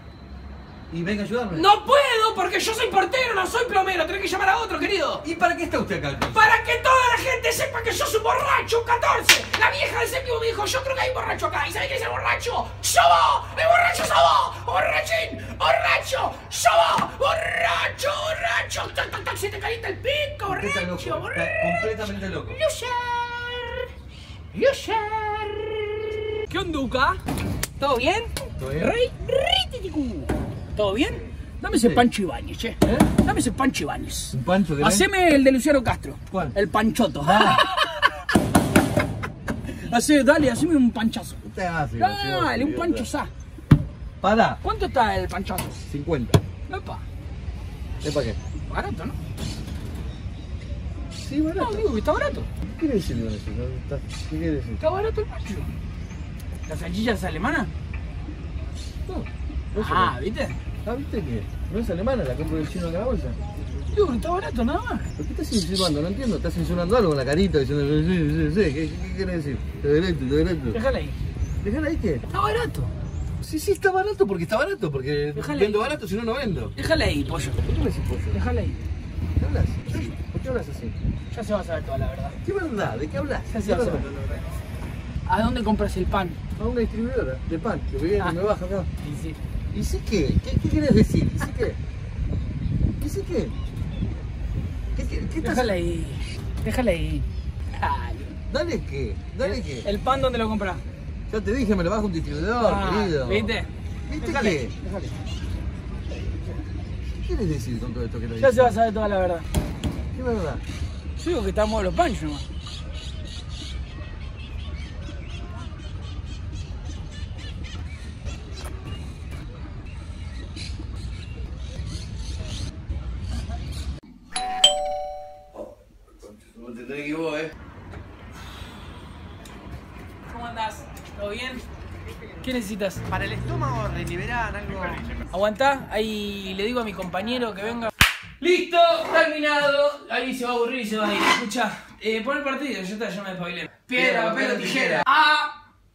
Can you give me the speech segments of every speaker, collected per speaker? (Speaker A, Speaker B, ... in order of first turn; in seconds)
Speaker A: 0.9-1.7, 5.2-6.5, 20.5-22.6, 28.6-28.9, 31.8-32.0, 32.8-33.1, 34.3-35.1, 36.3-36.5, 37.2-37.7, 41.4-43.1, 44.2-44.6, 45.9-46.4, 48.0-48.4, 51.1-51.9, 52.6-54.8, 59.1-60.2, 60.8-63.4, 65.2-70.8, 71.6-72.2, 73.4-76.8, 77.6-78.4, 79.4-81.0, 82.4-84.1, 86.6-88.9, 89.7-91.8, 93.0-93.5, 95.0-95.8, 98.5-99.9, 101.3-103.5, 104.1-104.8, 107.2-108.8, 110.1-110.6, 125.5-127.6, 143.9-145.1
Speaker B: 1.5-5.2, 6.3-21.9, 22.5-23.9, 24.5-25.9, 26.5-27.2, 27.8-38.1, 39.7-41.4, 42.0-43.3, 44.6-45.8, 46.7-47.0, 48.7-49.2, 51.6-52.5, 54.8-55.7, 56.7-57.7, 59.8-60.6, 63.9-65.1, 70.7-71.2, 72.3-72.9, 75.3-75.9, 76.8-77.7, 78.3-78.9, 81.3-82.4, 83.5-84.4, 85.3-86.4, 89.0-89.4, 95.4-98.4, 99.4-100.8, 102.6-105.1, 108.4-109.5, 111.2-112.5, 130.3-131.7, 132.4-133.0, 135.3-145.6
Speaker C: 133.1-135.2